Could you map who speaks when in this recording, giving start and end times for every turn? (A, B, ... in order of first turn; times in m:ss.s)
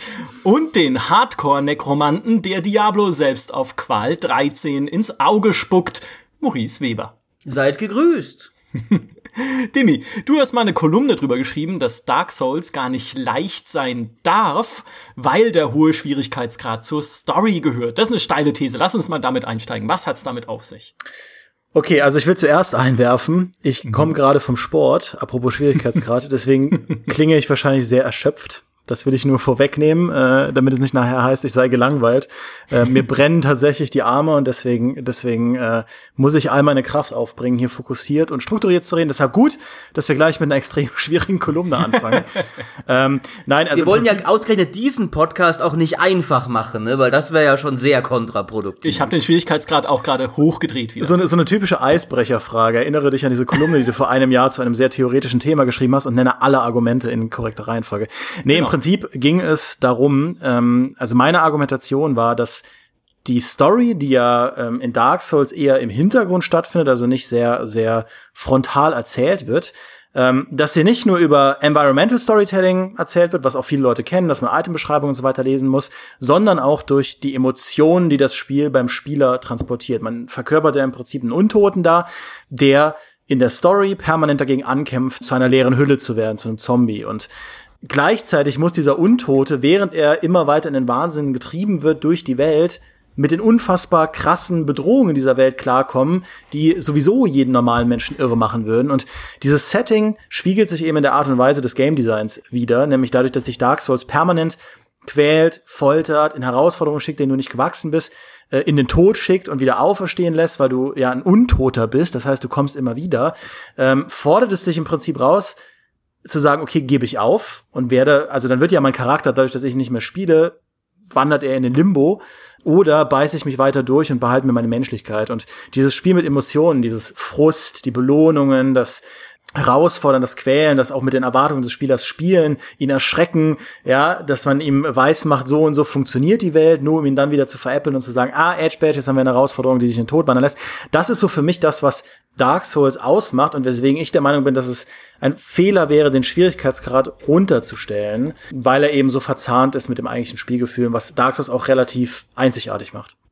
0:00.4-0:07.1 A
0:07.4-0:08.5 B
0:08.9-0:20.9 A
0:21.7-0:42.3 C
0:42.9-0:44.2 C
0:43.7-0:49.1 B
0:48.8-0:51.2 A
0:51.0-1:02.6 C
1:03.2-1:27.3 C
1:27.8-1:55.6 C
1:56.2-2:00.6 C
2:01.1-2:09.0 C
2:09.6-2:33.1 C